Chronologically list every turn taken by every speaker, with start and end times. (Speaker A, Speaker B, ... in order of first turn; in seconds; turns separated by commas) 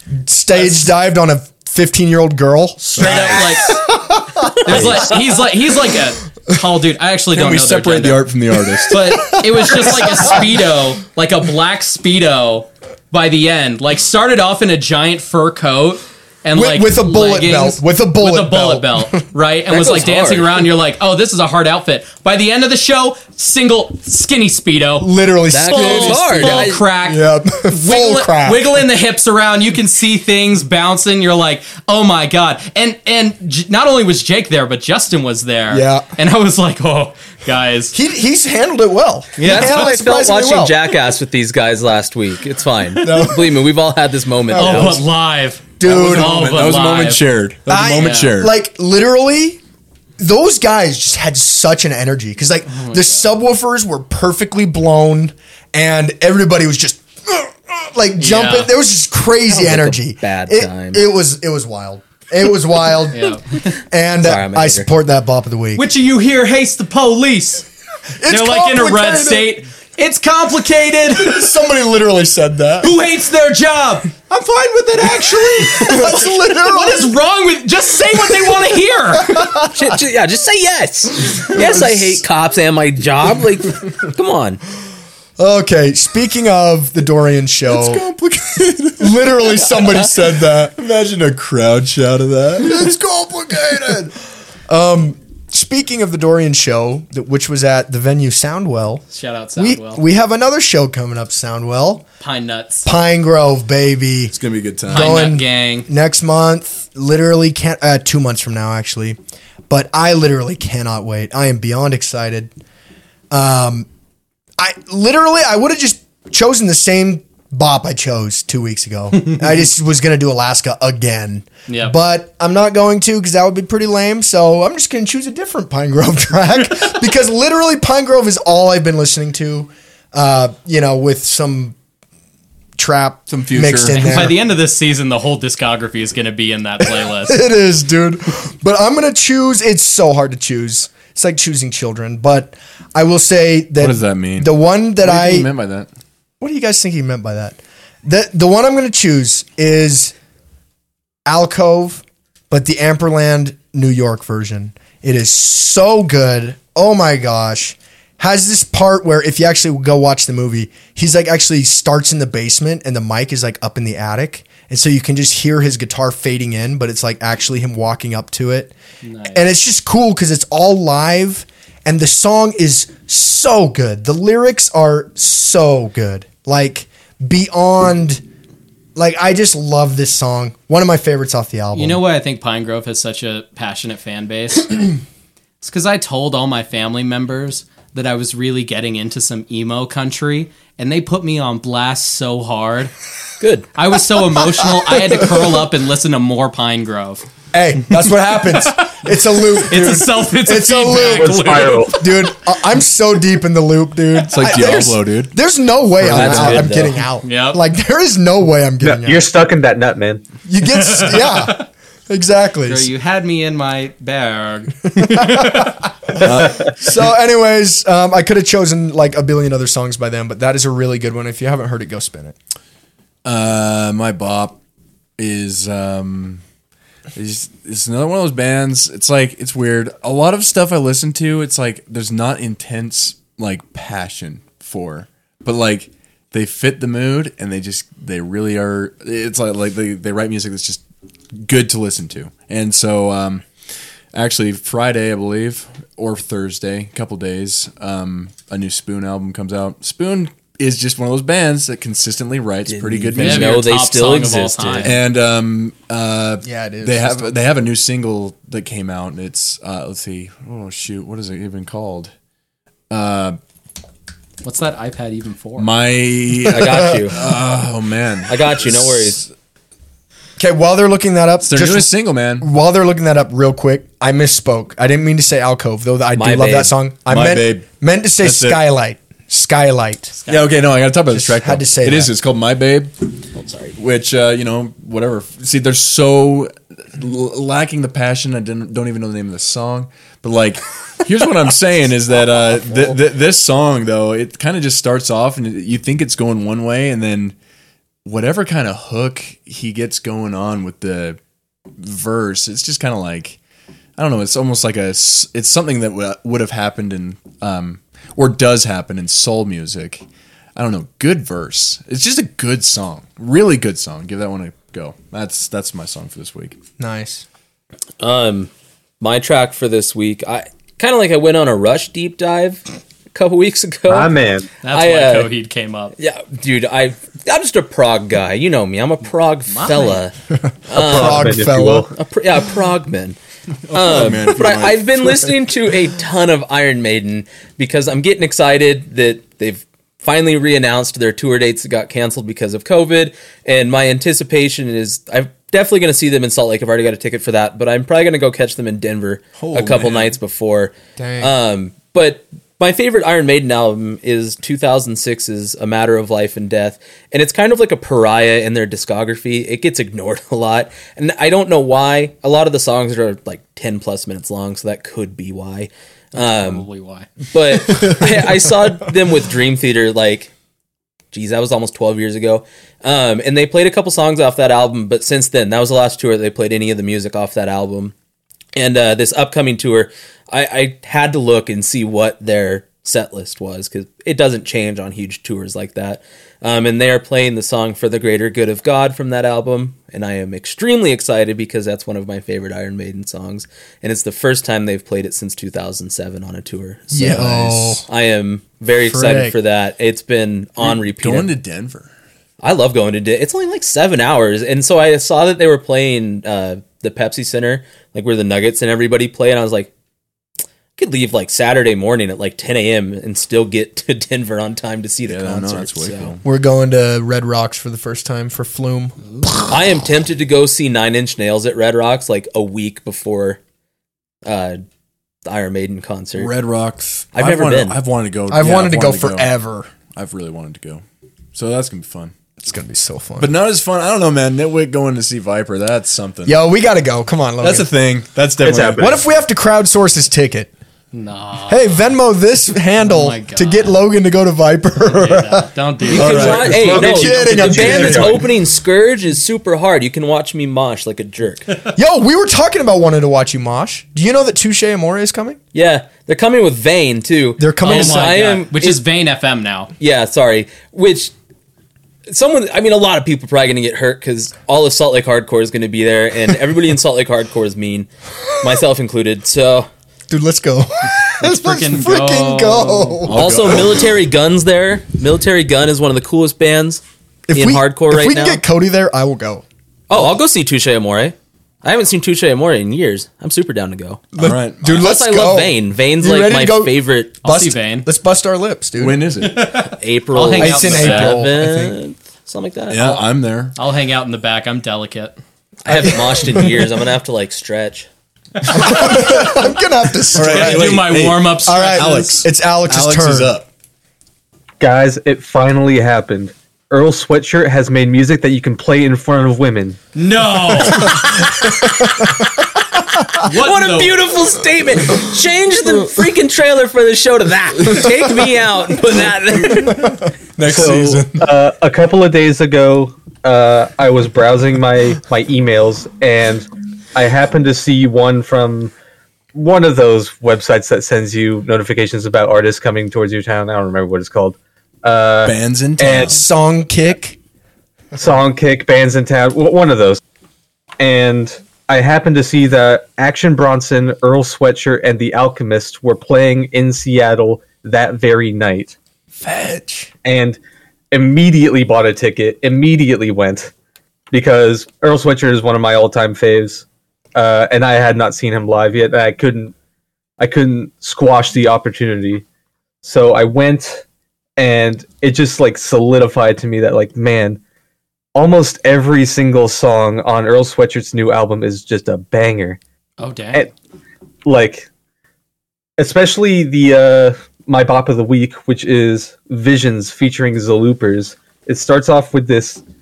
Speaker A: 0.2-4.9, Speaker B: 0.5-0.9, Speaker B: 2.9-3.8, Speaker B: 4.6-8.3, Speaker C: 4.7-5.1, Speaker D: 7.3-9.4, Speaker B: 8.9-25.1, Speaker A: 9.8-10.2, Speaker A: 16.5-19.2, Speaker C: 19.7-20.6, Speaker A: 25.0-28.8, Speaker C: 25.5-26.9, Speaker B: 25.7-38.0, Speaker A: 35.7-36.1, Speaker A: 37.9-40.8, Speaker B: 39.4-39.9, Speaker C: 39.4-45.0, Speaker A: 43.0-43.6, Speaker A: 44.5-45.0, Speaker B: 44.5-47.2, Speaker A: 45.8-46.5, Speaker D: 45.8-48.5, Speaker A: 47.7-49.6, Speaker B: 48.0-48.3, Speaker A: 50.2-65.9, Speaker B: 52.7-53.3, Speaker B: 58.2-58.7, Speaker C: 59.5-61.0, Speaker B: 63.1-63.6, Speaker C: 64.2-64.9, Speaker B: 65.8-67.7, Speaker A: 68.2-69.6, Speaker B: 68.3-71.5, Speaker A: 71.1-72.9, Speaker B: 72.8-74.1, Speaker A: 74.3-77.1, Speaker B: 75.2-79.5, Speaker A: 79.1-80.0, Speaker C: 79.7-84.6, Speaker A: 81.5-82.2, Speaker A: 85.4-88.0, Speaker D: 87.7-94.1, Speaker A: 89.0-90.8, Speaker A: 92.6-94.1, Speaker A: 94.7-99.0, Speaker B: 99.1-100.0, Speaker A: 99.6-102.1, Speaker B: 102.2-102.9, Speaker A: 102.8-104.3, Speaker D: 104.3-105.3, Speaker A: 104.9-109.2, Speaker B: 104.9-105.9, Speaker A: 109.7-112.5, Speaker A: 113.3-113.9, Speaker A: 114.6-131.8, Speaker B: 121.7-122.0, Speaker A: 132.8-134.4, Speaker D: 133.3-134.3, Speaker B: 133.9-137.4, Speaker A: 136.8-145.5, Speaker D: 143.8-144.5, Speaker D: 145.0-145.9, Speaker A: 146.4-150.1, Speaker A: 151.3-168.7, Speaker B: 169.0-169.4, Speaker A: 169.3-178.2, Speaker A: 179.0-182.0, Speaker B: 181.7-185.0, Speaker B: 185.6-192.9, Speaker C: 193.4-193.7, Speaker B: 193.8-197.2, Speaker A: 197.5-209.3, Speaker B: 198.5-202.2, Speaker E: 201.1-202.0, Speaker D: 204.3-205.4, Speaker C: 206.0-207.0, Speaker D: 206.1-206.6, Speaker B: 207.2-207.6, Speaker E: 208.8-210.2, Speaker A: 210.5-212.9, Speaker B: 210.6-211.7, Speaker B: 212.7-215.8, Speaker A: 215.0-222.4, Speaker D: 216.2-216.7, Speaker E: 216.2-216.7, Speaker D: 223.2-224.6, Speaker D: 225.2-226.4, Speaker D: 227.2-240.8, Speaker D: 241.3-243.5, Speaker D: 244.1-253.6, Speaker C: 252.7-254.9, Speaker B: 253.2-255.0, Speaker D: 254.8-262.1, Speaker A: 256.4-257.4, Speaker D: 262.9-263.4, Speaker B: 264.4-265.7, Speaker D: 265.6-269.3, Speaker C: 266.5-267.2, Speaker C: 268.3-269.2, Speaker A: 270.4-280.2, Speaker D: 271.4-272.5, Speaker C: 276.2-276.7, Speaker D: 277.1-277.7, Speaker D: 278.2-278.6, Speaker B: 280.2-280.5, Speaker D: 280.3-282.9, Speaker A: 281.1-282.1, Speaker C: 283.3-283.8, Speaker D: 283.8-297.4, Speaker D: 298.0-301.2, Speaker D: 301.8-303.4, Speaker D: 304.0-310.0, Speaker D: 310.6-316.6, Speaker A: 316.8-317.2, Speaker C: 318.0-324.1, Speaker E: 323.9-324.5, Speaker B: 324.6-325.9, Speaker C: 324.7-325.3, Speaker C: 326.0-330.1, Speaker B: 329.5-330.0, Speaker A: 330.3-331.9, Speaker C: 330.7-331.4, Speaker E: 330.7-331.9, Speaker C: 332.0-333.2, Speaker D: 333.7-335.3, Speaker C: 333.7-366.6, Speaker D: 349.4-350.2, Speaker A: 351.0-351.3, Speaker B: 366.1-367.1, Speaker C: 367.3-370.3, Speaker C: 371.1-377.9, Speaker C: 378.6-401.3, Speaker A: 396.9-397.9, Speaker A: 398.8-399.4, Speaker D: 400.6-401.9, Speaker C: 402.4-409.7, Speaker C: 410.8-416.2, Speaker D: 415.1-416.2, Speaker A: 416.2-419.0, Speaker C: 419.4-423.4, Speaker C: 424.2-424.6, Speaker C: 425.2-426.3, Speaker D: 426.2-429.3, Speaker C: 427.1-427.8, Speaker A: 428.3-429.7, Speaker D: 429.9-430.8, Speaker D: 431.3-432.1, Speaker A: 432.4-433.3, Speaker D: 433.2-436.4, Speaker A: 436.3-437.7, Speaker D: 437.4-438.9, Speaker E: 438.4-439.0, Speaker A: 438.8-440.5, Speaker B: 440.9-441.6, Speaker A: 441.5-448.3, Speaker B: 442.8-443.8, Speaker B: 444.9-446.4, Speaker C: 445.9-451.5, Speaker D: 445.9-448.1, Speaker E: 447.8-448.2, Speaker A: 451.8-455.4, Speaker C: 455.5-458.8, Speaker A: 457.4-458.2, Speaker B: 457.6-459.7, Speaker C: 459.8-461.1, Speaker C: 462.1-469.7, Speaker A: 470.1-473.6, Speaker B: 471.2-473.1, Speaker D: 473.1-473.9, Speaker C: 473.1-476.8, Speaker A: 477.3-479.4, Speaker C: 477.3-478.4, Speaker C: 479.9-484.1, Speaker A: 484.1-489.1, Speaker D: 484.2-484.9, Speaker C: 484.7-487.1, Speaker B: 487.2-487.9, Speaker D: 488.8-489.7, Speaker B: 489.2-491.2, Speaker C: 489.8-493.0, Speaker A: 490.4-491.8, Speaker D: 492.7-493.6, Speaker B: 493.6-495.2, Speaker C: 495.6-497.9, Speaker A: 495.7-496.7, Speaker A: 498.5-500.9, Speaker D: 500.1-503.5, Speaker B: 500.2-502.1, Speaker A: 501.4-503.3, Speaker E: 504.6-509.8, Speaker B: 509.9-511.3, Speaker A: 511.4-512.3, Speaker B: 513.1-514.1, Speaker C: 513.2-520.0, Speaker A: 519.4-521.3, Speaker E: 520.5-528.7, Speaker E: 529.3-536.1, Speaker D: 535.2-536.2, Speaker A: 535.9-537.2, Speaker E: 538.0-540.0, Speaker E: 540.8-548.8, Speaker A: 549.2-549.9, Speaker E: 550.0-550.4, Speaker E: 550.9-553.5, Speaker E: 554.1-559.5, Speaker E: 560.2-562.2, Speaker E: 562.8-563.8, Speaker E: 564.4-567.4, Speaker E: 568.1-572.6, Speaker B: 573.0-573.5, Speaker E: 574.2-574.7, Speaker E: 575.8-582.6